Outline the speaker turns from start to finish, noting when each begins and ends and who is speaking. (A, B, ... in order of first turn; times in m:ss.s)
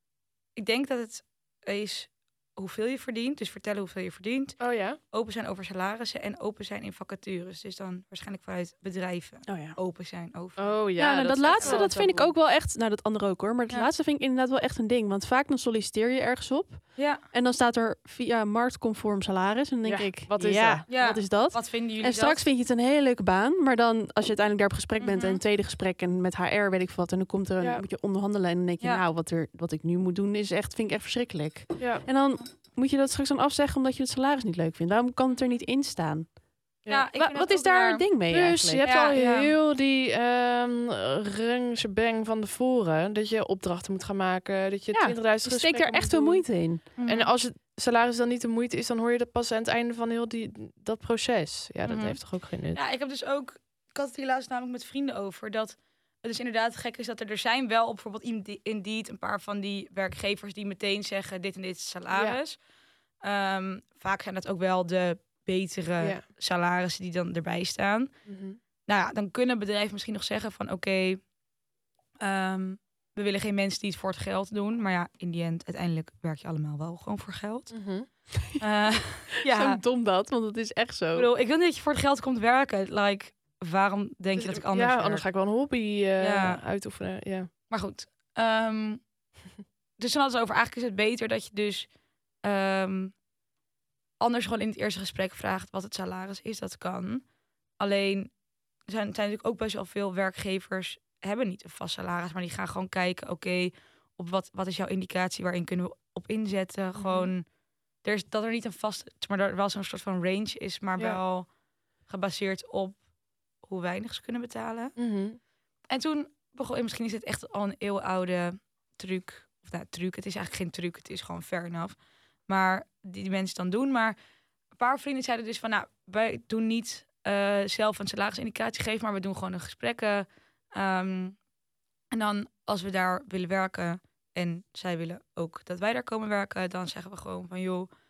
0:00.6-0:10.8 A
0:04.6-0:05.0 B
0:09.4-0:09.8 C
0:10.6-0:12.3 B
0:11.0-0:36.3 C
0:11.6-0:11.9 A
0:17.0-0:17.2 A
0:19.8-0:20.8 B
0:20.9-0:22.4 A
0:25.0-0:25.4 A
0:31.8-0:32.0 B
0:36.9-0:38.0 A
0:37.1-0:38.9 C
0:38.3-0:52.8 B
0:38.8-0:39.5 A
0:44.9-0:46.9 C
0:47.0-0:47.3 A
0:51.8-0:52.2 A
0:52.7-1:02.6 A
1:02.1-1:02.4 B
1:03.2-1:08.1 A
1:08.2-1:08.6 B
1:08.8-1:11.2 A
1:12.2-1:17.8 A
1:17.7-1:18.1 B
1:18.6-1:19.8 A
1:19.4-1:21.3 C
1:21.1-1:25.3 A
1:24.4-1:27.5 B
1:26.2-1:26.6 A
1:27.7-1:29.0 A
1:30.0-1:31.9 A
1:32.4-1:33.2 A
1:34.2-1:37.2 A
1:37.8-1:38.3 A
1:38.8-1:47.5 A
1:47.0-1:47.3 B
1:48.0-1:51.5 A
1:52.0-1:53.0 A
1:53.6-1:54.9 A
1:55.0-1:55.4 B
1:55.9-2:04.2 A
2:04.8-2:11.4 A
2:12.1-2:17.9 A